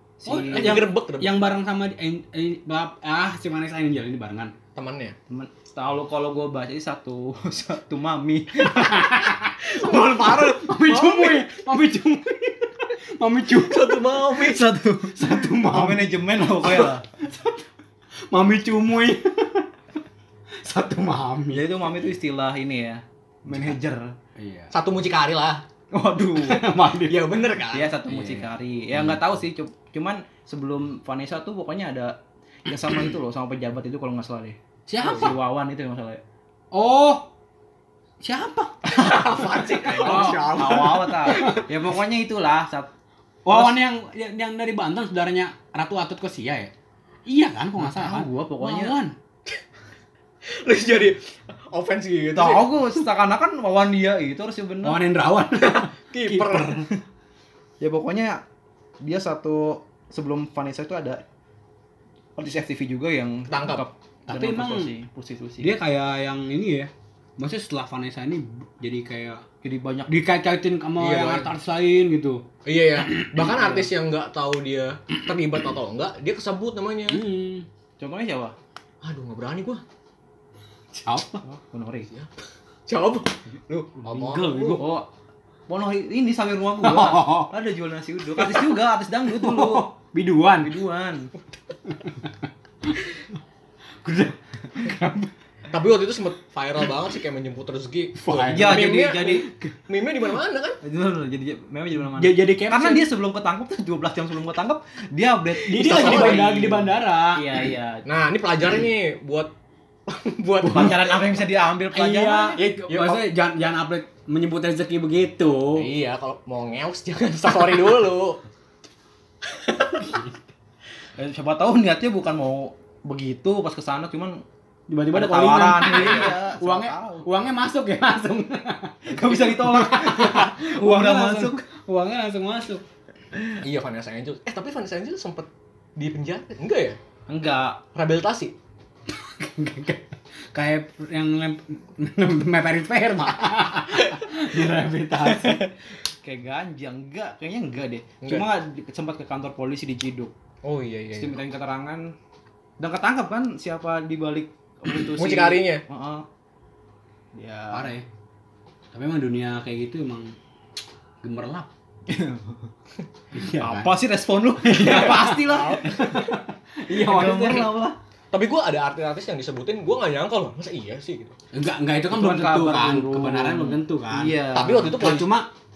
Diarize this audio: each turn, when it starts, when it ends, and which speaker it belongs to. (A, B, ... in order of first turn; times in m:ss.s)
0:00.2-0:00.8 A
0:00.2-0:04.5 B
0:00.5-0:01.3 C
0:04.7-0:05.2 C
0:05.3-0:09.3 A
0:08.6-0:14.1 B
0:09.6-0:11.5 C
0:13.5-0:14.6 C
0:14.3-0:17.0 A
0:15.1-0:17.6 B
0:18.3-0:19.7 B
0:20.6-0:21.6 B
0:21.5-0:24.1 A
0:23.5-0:23.8 B
0:24.4-0:24.7 B
0:24.7-0:25.6 C
0:25.9-0:26.6 A
0:26.4-0:27.4 B
0:27.0-0:27.9 C
0:27.7-0:36.2 A
0:28.1-0:29.2 B
0:34.9-0:35.3 B
0:36.7-0:37.3 B
0:38.2-0:41.6 B
0:38.8-0:41.6 C
0:39.9-0:42.9 A
0:43.4-0:46.7 B
0:43.5-0:43.8 A
0:47.2-0:49.2 B
0:47.8-0:49.0 A
0:50.4-0:52.9 C
0:52.3-0:55.0 A
0:54.8-0:56.8 B
0:55.6-0:56.9 C
0:57.8-0:58.4 A
0:59.0-1:01.2 A
1:02.4-1:05.8 A
1:03.5-1:03.8 C
1:04.3-1:04.9 B
1:05.6-1:09.4 B
1:09.6-1:10.1 A
1:10.1-1:12.4 B
1:11.0-1:11.5 C
1:12.6-1:17.2 C
1:13.0-1:13.9 B
1:17.1-1:17.7 B
1:18.0-1:18.5 A
1:19.0-1:19.8 C
1:20.9-1:21.4 B
1:21.4-1:22.1 A
1:22.9-1:24.8 C
1:24.0-1:25.0 B
1:24.8-1:25.1 A
1:25.7-1:29.9 A
1:26.8-1:27.5 B
1:28.4-1:30.8 B
1:30.6-1:31.3 A
1:31.9-1:32.9 B
1:34.0-1:35.3 B
1:35.7-1:40.8 C
1:38.2-1:39.0 B
1:38.5-1:39.5 A
1:40.8-1:48.0 A
1:42.1-1:43.1 B
1:45.6-1:47.5 B
1:45.8-1:46.4 C
1:48.0-1:49.5 C
1:50.1-1:51.2 C
1:50.6-1:51.1 B
1:50.6-1:53.2 A
1:51.9-1:55.9 B
1:52.6-1:52.8 C
1:55.8-1:58.4 C
1:59.5-2:00.1 C
1:59.9-2:00.4 B
2:01.2-2:04.4 A
2:04.9-2:12.8 B
2:05.1-2:07.3 A
2:05.8-2:06.3 C
2:09.1-2:11.6 A
2:13.6-2:17.0 C
2:17.3-2:17.8 A
2:17.9-2:18.5 C
2:19.1-2:25.6 B
2:26.2-2:30.3 A
2:30.6-2:31.4 C
2:31.1-2:32.1 A
2:32.8-2:36.2 A
2:34.9-2:35.8 C
2:37.3-2:37.9 A
2:37.7-2:38.0 B
2:38.9-2:40.3 B
2:41.2-2:41.7 B
2:42.1-2:42.6 A
2:43.3-2:43.9 B
2:43.5-2:46.0 A
2:44.6-2:47.8 B
2:44.8-2:46.4 C
2:46.9-2:48.0 A
2:48.3-2:51.3 C
2:51.5-2:55.5 B
2:52.1-2:55.0 A
2:54.5-2:55.3 C